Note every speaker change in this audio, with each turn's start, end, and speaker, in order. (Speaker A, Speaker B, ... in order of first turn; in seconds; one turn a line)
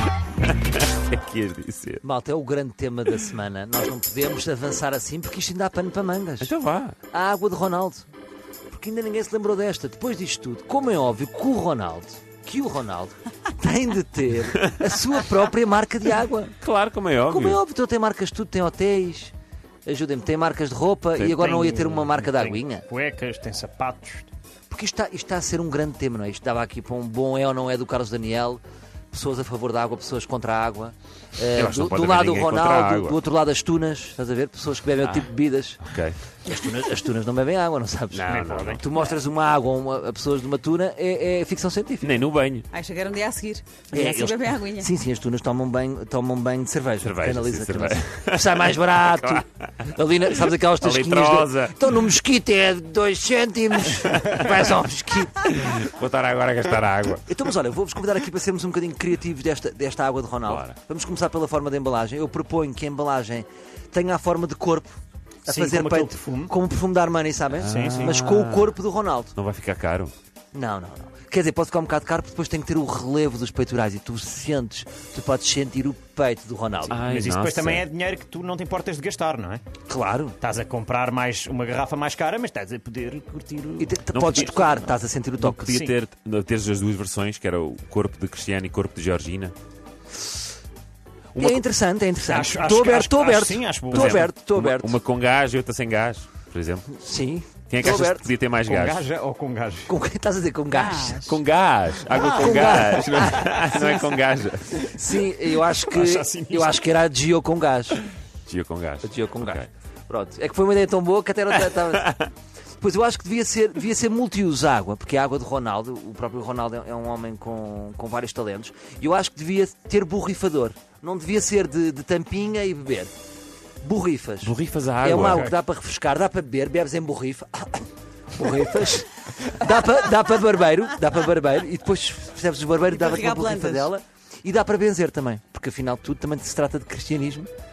Speaker A: 0.3-2.0
Speaker B: 2.0-6.5
Speaker A: 6.4-7.0
Speaker B: 7.1-8.1
Speaker B: 8.7-16.6
Speaker A: 16.6-17.6
Speaker B: 17.3-19.3
Speaker B: 19.9-22.9
Speaker C: 21.2-24.3
Speaker B: 24.7-28.6
Speaker B: 29.1-35.8
Speaker A: 31.5-33.2
Speaker A: 35.0-35.3
Speaker A: 35.8-36.2
Speaker B: 36.5-42.2
Speaker A: 38.1-38.8
Speaker C: 38.3-38.8
Speaker A: 42.0-42.7
Speaker D: 42.7-44.9
Speaker B: 43.9-55.8
Speaker A: 47.0-51.9
Speaker A: 55.4-57.4
Speaker B: 57.3-69.3
Speaker A: 60.5-60.8
Speaker C: 65.5-66.5
Speaker A: 67.5-68.8
Speaker C: 67.7-68.2
Speaker A: 69.4-70.1
Speaker B: 70.5-77.0
Speaker C: 76.9-79.6
Speaker A: 76.9-77.8
Speaker B: 79.9-80.4
Speaker C: 80.4-84.0
Speaker B: 83.8-85.8
Speaker A: 84.1-84.9
Speaker C: 85.4-86.0
Speaker A: 85.4-89.5
Speaker A: 91.3-91.6
Speaker B: 91.4-95.0
Speaker C: 92.3-94.3
Speaker A: 93.9-96.9
Speaker B: 96.9-98.2
Speaker A: 97.7-99.1
Speaker C: 98.7-99.9
Speaker B: 99.9-101.3
Speaker D: 100.7-101.2
Speaker A: 101.2-104.9
Speaker C: 102.1-104.0
Speaker B: 102.1-103.7
Speaker B: 104.8-108.0
Speaker C: 105.6-106.8
Speaker A: 108.5-109.7
Speaker B: 109.0-112.2
Speaker A: 111.7-112.3
Speaker B: 112.8-123.1
Speaker B: 123.8-137.5
Speaker A: 124.4-125.5
Speaker C: 125.2-125.5
Speaker D: 132.9-133.9